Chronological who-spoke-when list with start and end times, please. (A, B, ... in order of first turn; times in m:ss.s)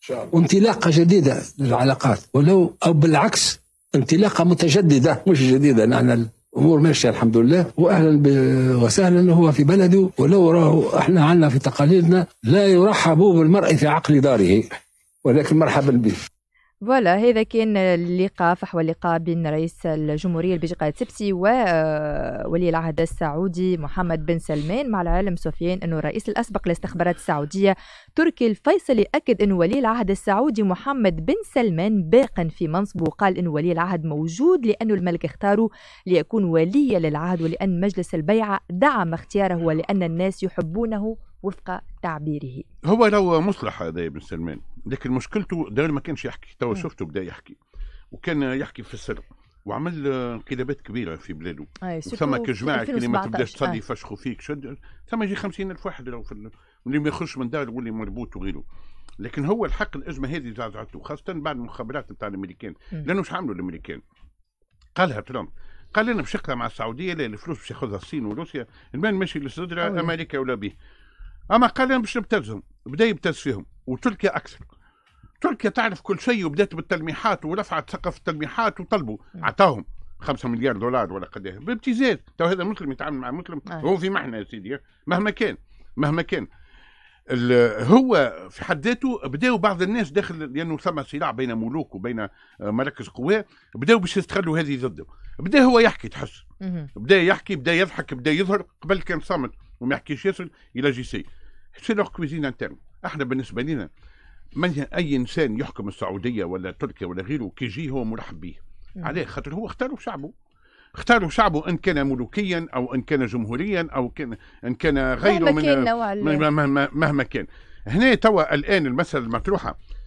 0:00.3-0:16.2 A
0:16.8-0:42.6 B
0:42.8-0:47.6 C
0:48.1-0:58.6 C
0:51.8-0:53.8 B
0:59.2-1:04.0 C
1:05.0-1:10.7 C
1:09.8-1:10.1 B
1:11.5-1:14.6 C
1:15.4-1:26.5 C
1:27.3-1:43.9 C
1:36.6-1:36.9 B
1:44.6-1:50.3 C
1:51.0-1:59.7 C
1:55.2-1:56.4 B